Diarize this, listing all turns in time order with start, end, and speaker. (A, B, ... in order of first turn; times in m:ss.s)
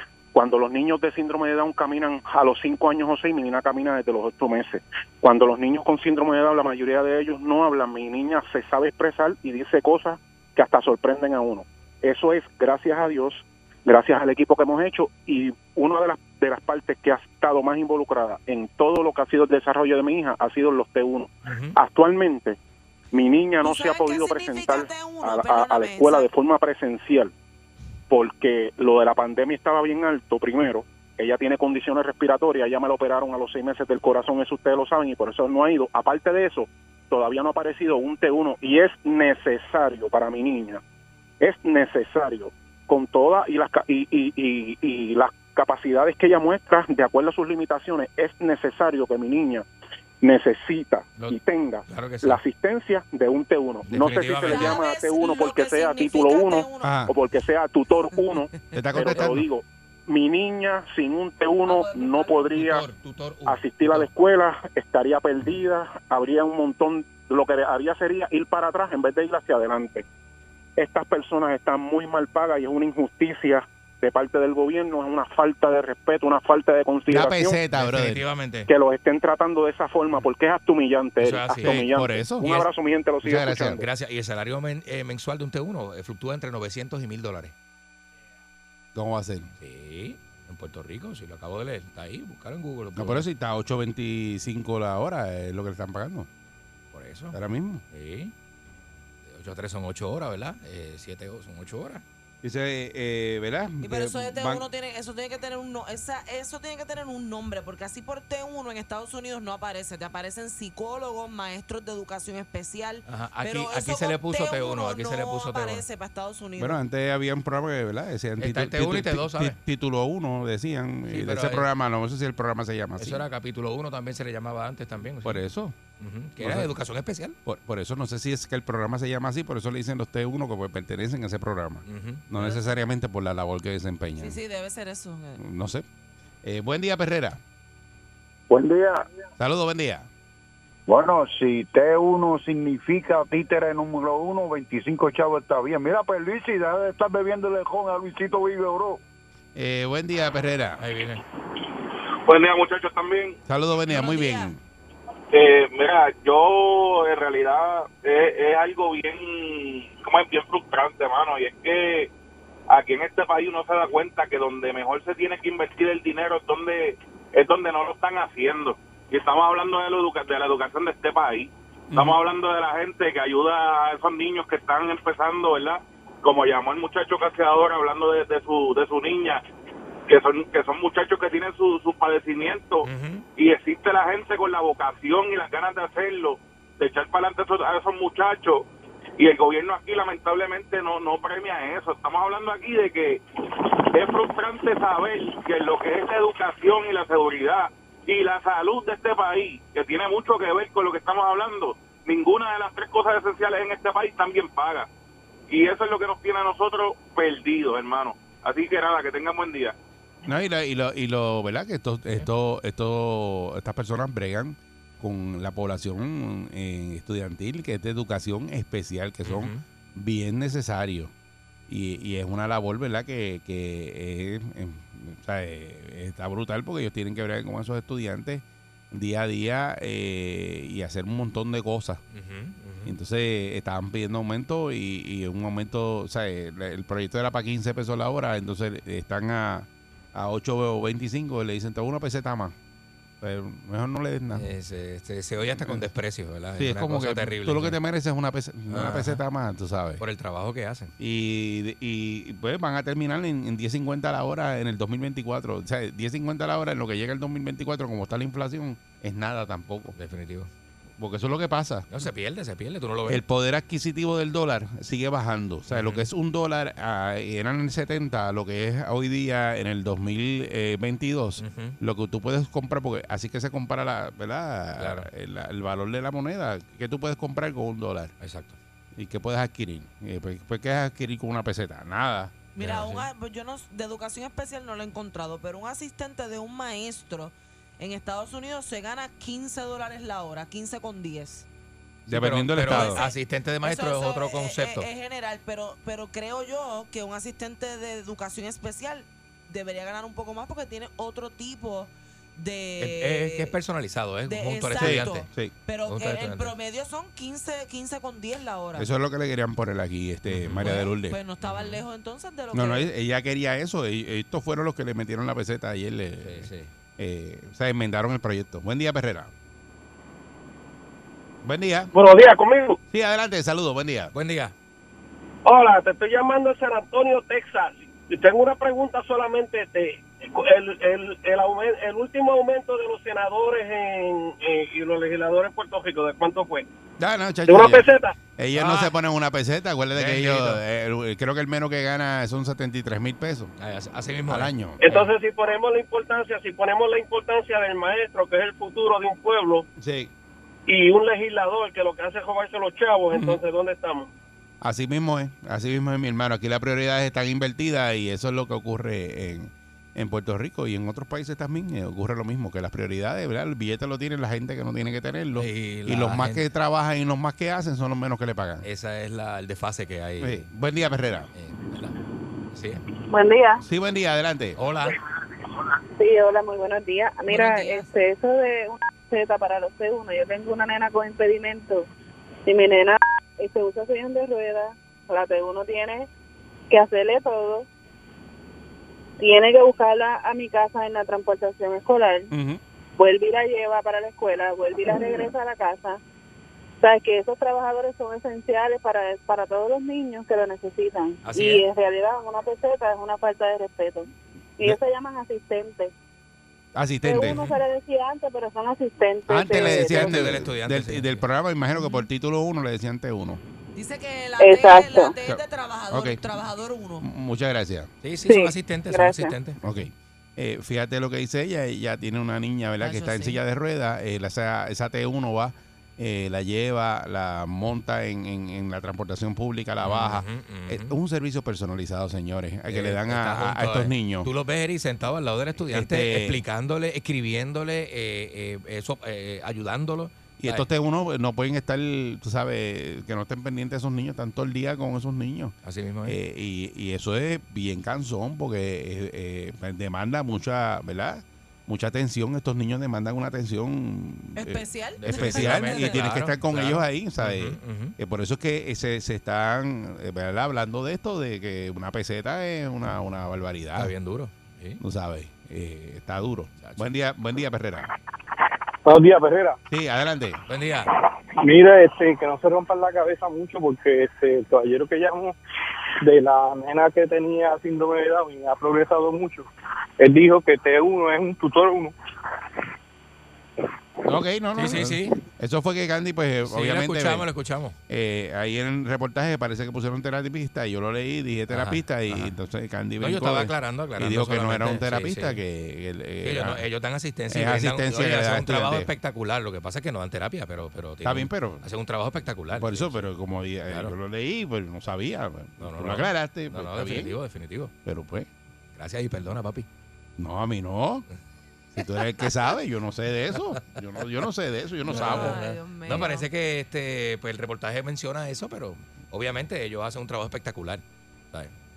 0:00.3-0:22.6 A
0:21.4-0:21.8 B
0:23.1-0:27.3 A
0:23.6-0:26.3 C
0:28.1-0:40.8 A
0:41.4-0:49.6 A
0:50.2-1:02.9 A
0:51.2-0:52.4 B
0:53.9-0:54.8 B
0:54.5-0:57.0 C
0:56.8-0:57.1 D
0:58.7-0:59.5 D
1:01.7-1:02.4 C
1:02.4-1:04.1 B
1:03.5-1:10.0 A
1:10.8-1:17.6 A
1:17.1-1:18.2 D
1:17.7-1:18.7 B
1:18.7-1:23.8 A
1:21.2-1:21.8 B
1:21.6-1:22.6 D
1:23.2-1:23.8 D
1:23.7-1:27.5 B
1:29.0-1:29.5 D
1:29.6-1:33.3 B
1:33.0-1:36.3 D
1:36.9-1:37.4 B
1:37.3-1:37.8 D
1:37.9-1:38.3 B
1:39.3-1:42.0 B
1:42.4-1:44.7 D
1:43.8-1:56.8 C
1:53.1-1:55.8 B
1:56.6-2:03.2 D
1:58.4-1:59.6 B
2:01.1-2:01.7 B
2:03.0-2:05.4 B
2:05.2-2:05.8 D
2:06.0-2:07.4 B
2:06.4-2:06.7 D
2:07.4-2:14.4 D
2:11.9-2:12.6 B
2:14.2-2:15.4 C
2:15.4-2:15.8 D
2:16.4-2:17.4 D
2:18.5-2:19.0 E
2:19.4-2:20.1 D
2:20.9-2:29.0 E
2:29.6-2:30.8 D
2:30.8-2:31.2 B
2:32.3-2:33.4 F
2:33.5-2:34.6 D
2:33.9-2:34.5 C
2:35.3-2:42.1 F
2:42.7-2:59.4 F
2:51.9-2:52.2 D
3:00.1-3:08.7 F
3:02.8-3:03.2 B
3:09.2-3:13.2 F
3:13.9-3:24.9 F
3:25.5-3:29.8 F
3:30.2-3:41.1 D
3:39.2-3:39.6 B
3:41.7-3:52.0 D
3:52.1-3:52.9 B
3:52.8-4:02.6 D
4:03.2-4:04.5 D
4:04.3-4:07.8 B
4:05.6-4:05.8 D
4:06.6-4:10.0 D
4:08.7-4:09.2 B
4:10.0-4:10.9 B
4:11.0-4:20.0 D
4:20.0-4:20.5 B
4:21.0-4:21.9 D
4:21.9-4:23.2 B
4:23.1-4:38.1 D
4:25.7-4:26.1 B
4:31.4-4:31.8 B
4:34.8-4:35.1 B
4:38.2-4:38.6 B
4:39.0-4:42.3 D
4:42.6-4:51.5 C
4:42.6-4:43.1 B
4:52.1-4:53.0 D
4:52.1-4:54.9 B
4:52.6-5:03.6 C
5:02.8-5:05.3 B
5:04.3-5:08.9 C
5:04.8-5:05.5 D
5:05.9-5:06.5 B
5:08.8-5:11.2 D
5:10.3-5:10.7 B
5:10.6-5:12.9 C
5:11.4-5:11.8 B
5:12.5-5:19.3 D
5:16.2-5:16.7 B
5:21.4-5:21.9 D
5:21.9-5:22.8 G
5:22.9-5:24.1 D
5:24.1-5:24.5 B
5:25.4-5:36.7 G
5:37.0-5:43.5 D
5:37.5-5:38.1 G
5:38.6-5:38.9 B
5:39.9-5:40.6 B
5:43.6-5:45.1 B
5:44.3-5:44.8 D
5:44.8-5:49.7 G
5:49.8-5:50.1 D
5:50.7-5:54.1 G
5:53.1-5:53.4 D
5:54.6-6:08.6 D
6:05.4-6:06.5 B
6:08.6-6:10.5 B
6:10.2-6:11.3 D
6:11.3-6:12.0 B
6:12.5-6:12.8 B
6:13.1-6:13.6 H
6:13.6-6:14.6 D
6:14.6-6:15.0 B
6:16.0-6:21.9 H
6:17.3-6:17.9 C
6:22.5-6:26.1 H
6:26.7-6:27.7 H
6:29.2-6:32.3 H
6:32.3-6:32.6 D
6:33.0-6:36.0 H
6:36.8-6:45.9 H
6:41.2-6:41.6 B
6:46.8-6:47.5 D
6:47.0-6:50.2 H
6:49.3-6:53.4 D
6:49.5-6:51.2 B
6:53.8-6:57.1 C
6:54.4-6:55.2 H
6:55.2-6:56.2 D
6:57.0-6:57.9 D
6:58.0-6:59.6 B
6:58.3-6:59.4 H
6:59.6-7:14.3 D
7:02.8-7:03.4 C
7:09.8-7:11.0 B
7:12.7-7:20.7 B
7:15.7-7:16.4 D
7:20.4-7:25.6 D
7:25.6-7:26.2 B
7:26.1-7:43.9 D
7:34.4-7:36.0 C
7:35.0-7:38.0 B
7:43.8-7:44.8 B
7:44.8-7:47.9 D
7:46.6-7:46.9 B
7:48.8-7:49.6 I
7:49.7-7:50.4 D
7:50.5-7:50.9 B
7:51.4-7:55.4 I
7:56.0-7:59.5 I
8:00.0-8:01.9 I
8:04.0-8:07.3 D
8:04.6-8:05.2 B
8:06.4-8:07.8 B
8:07.9-8:16.6 D
8:11.5-8:12.3 B
8:13.0-8:15.4 B
8:16.2-8:23.1 B
8:17.3-8:18.9 D
8:21.0-8:21.6 D
8:22.6-8:27.1 D
8:23.7-8:24.0 B
8:25.6-8:27.7 B
8:27.8-8:28.3 D
8:28.8-8:29.7 B
8:30.2-8:31.1 D
8:31.7-8:35.4 D
8:34.9-8:36.3 C
8:34.9-8:41.5 B